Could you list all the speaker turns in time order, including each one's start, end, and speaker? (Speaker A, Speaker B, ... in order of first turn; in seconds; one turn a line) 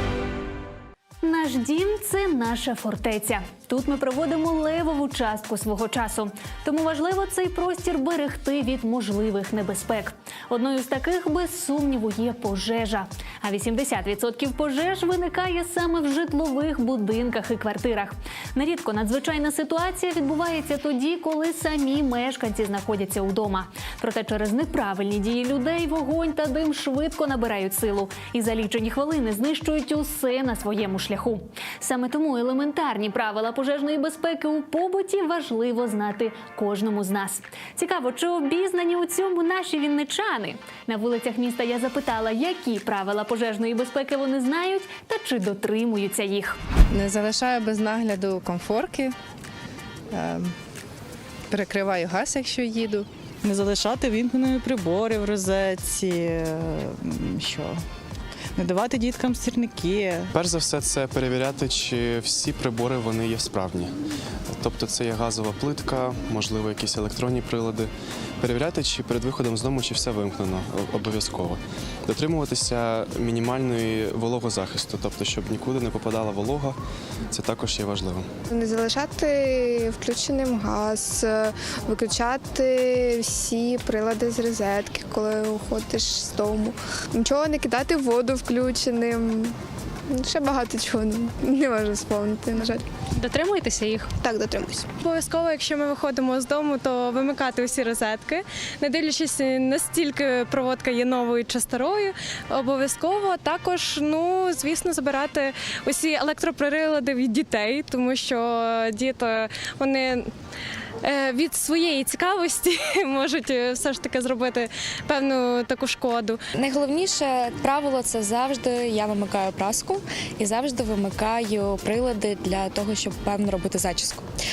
Speaker A: 1.2-46.6
Speaker B: 46.9-49.2
Speaker B: 50.1-50.5
Speaker B: 51.5-53.1
Speaker C: 53.4-57.8
Speaker C: 58.6-60.3
Speaker D: 60.3-63.9
Speaker D: 64.5-76.8
Speaker D: 77.3-78.3
Speaker E: 78.5-89.5
Speaker E: 90.1-92.8
Speaker E: 94.2-94.9
Speaker F: 95.0-110.3
Speaker F: 111.0-116.4
Speaker G: 116.6-124.2